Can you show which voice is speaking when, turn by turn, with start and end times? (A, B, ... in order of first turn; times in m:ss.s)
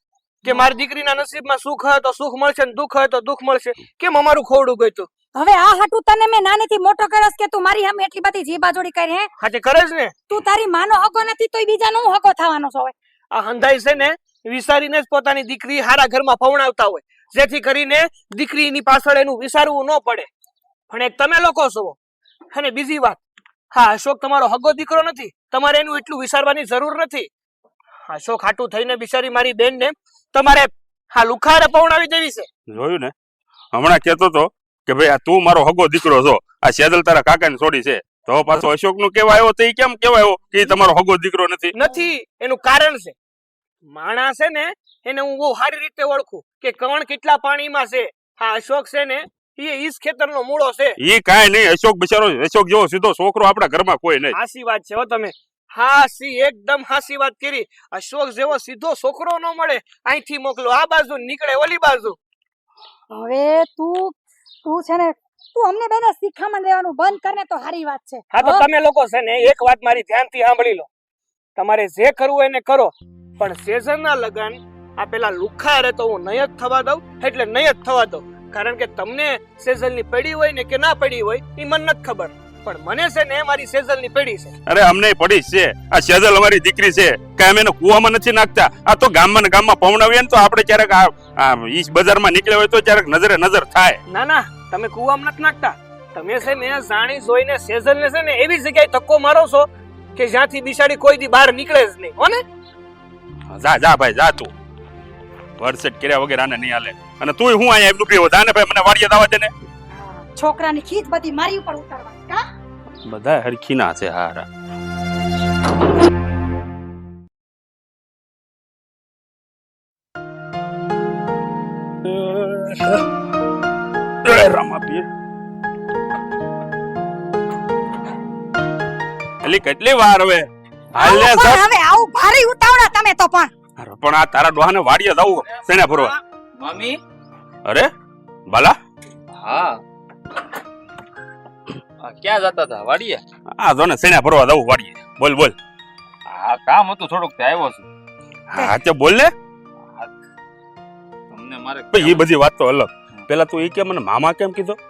0:00.4-0:05.1 A
0:05.3-0:09.3 B
0:09.4-0:10.1 A
0:10.3-0:12.9 B
0:13.3-0:20.3 A
0:20.9-0:22.0 A
0:22.5-0:23.2 A
0:23.7-0:27.3 A
0:28.1-0:32.5 A
0:32.7-0:33.1 C
0:33.7-0:41.7 C
0:41.7-0:43.1 A
0:43.9-0:51.0 A
0:51.0-0:54.3 C
0:54.3-1:02.2 A
1:03.1-1:04.1 B
1:04.6-1:08.6 B
1:08.3-1:10.9 A
1:11.6-1:24.5 A
1:24.6-1:34.0 C
1:34.1-1:42.4 A
1:43.5-1:44.5 C
1:45.6-1:49.5 C
1:49.9-1:52.4 B
1:53.0-1:54.5 C
2:02.0-2:03.0 C
2:04.2-2:05.0 C
2:09.4-2:11.6 C
2:11.0-2:13.5 B
2:13.8-2:16.1 C
2:15.9-2:17.0 D
2:17.6-2:17.9 C
2:18.5-2:18.8 C
2:19.3-2:19.8 D
2:22.0-2:23.2 D
2:23.6-2:25.5 C
2:26.3-2:27.8 D
2:28.5-2:29.3 C
2:31.3-2:32.2 D
2:31.9-2:34.8 C